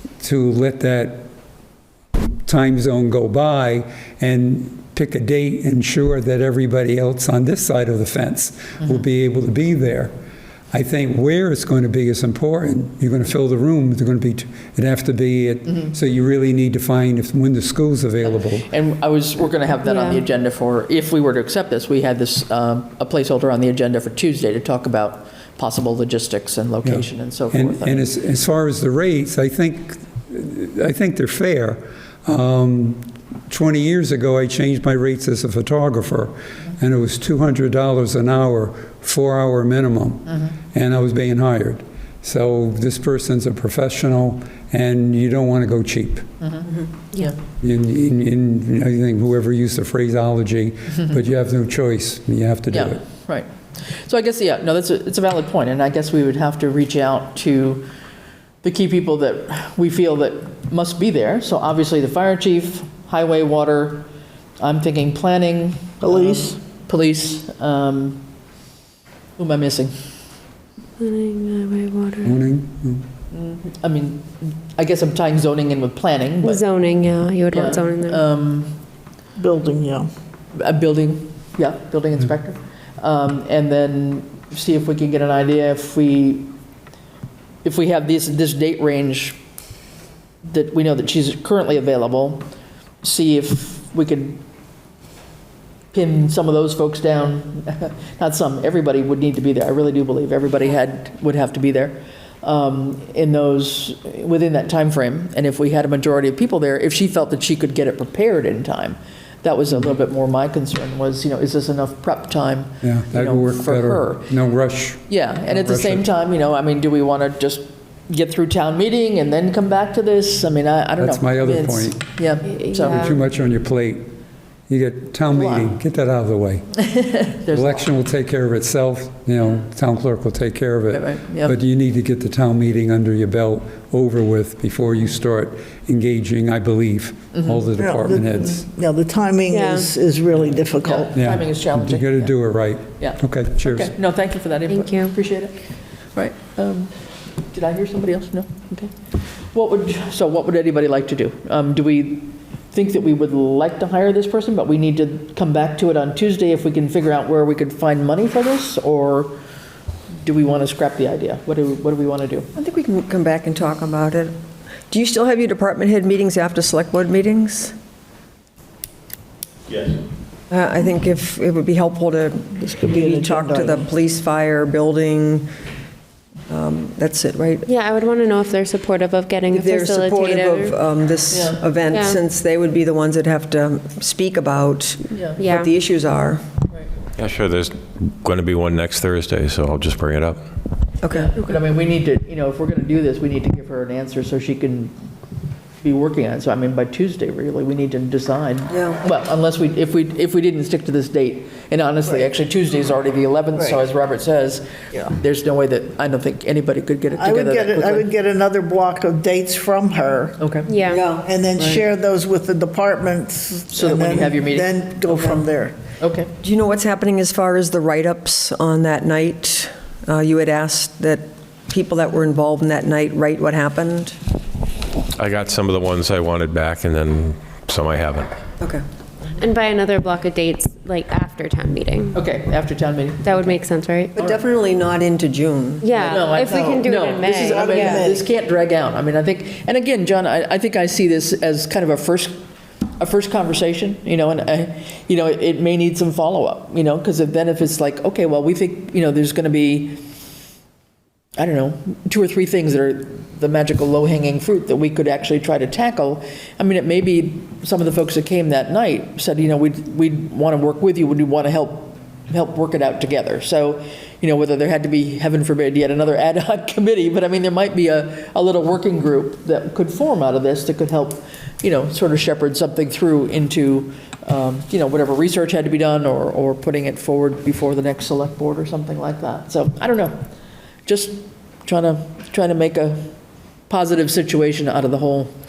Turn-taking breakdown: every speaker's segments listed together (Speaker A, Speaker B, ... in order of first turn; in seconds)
Speaker A: 0.2-1.2, 2.5-10.1, 10.7-18.7, 26.8-46.2, 47.6-53.0, 72.2-73.0, 112.8-116.0, 121.0-122.0, 122.9-124.1, 124.7-126.7, 127.5-138.6, 141.2-143.9
Speaker B: 18.2-28.1, 52.7-57.9, 58.6-64.1, 64.6-68.2, 69.4-69.9, 73.3-76.6, 77.5-78.8, 80.5-86.5, 87.6-89.4, 90.4-92.5, 93.0-94.4, 95.9-114.3, 115.1-123.2, 125.3-125.6, 126.8-127.9, 130.9-131.5, 137.3-137.6, 140.8-142.3, 143.0-145.6, 146.1-159.4, 160.2-162.5, 181.3-181.6, 185.1-185.4, 191.1-194.9, 195.8-208.1, 210.4-210.7, 211.6-211.8, 213.7-215.4, 216.0-216.3, 232.1-233.5, 235.9-242.3, 243.0-250.0, 251.4-280.2, 280.9-283.1, 283.7-285.3
Speaker C: 19.8-20.2, 71.0-72.4, 76.4-78.2, 122.4-123.2, 139.5-139.9, 144.7-145.2, 177.7-180.7, 181.9-182.2, 185.4-185.7, 210.7-211.0, 229.3-232.2, 233.2-234.1, 235.8-238.0
Speaker D: 66.0-66.6, 79.4-80.1, 137.8-141.2, 172.7-173.8, 207.2-210.4, 211.2-215.8, 236.4-238.2
Speaker E: 162.5-164.3, 164.9-167.7, 170.5-175.5, 176.5-177.7, 179.5-186.4, 191.0-191.3, 198.7-199.0, 210.8-211.2, 216.4-224.2, 234.2-235.9
Speaker F: 187.2-190.4, 225.2-228.3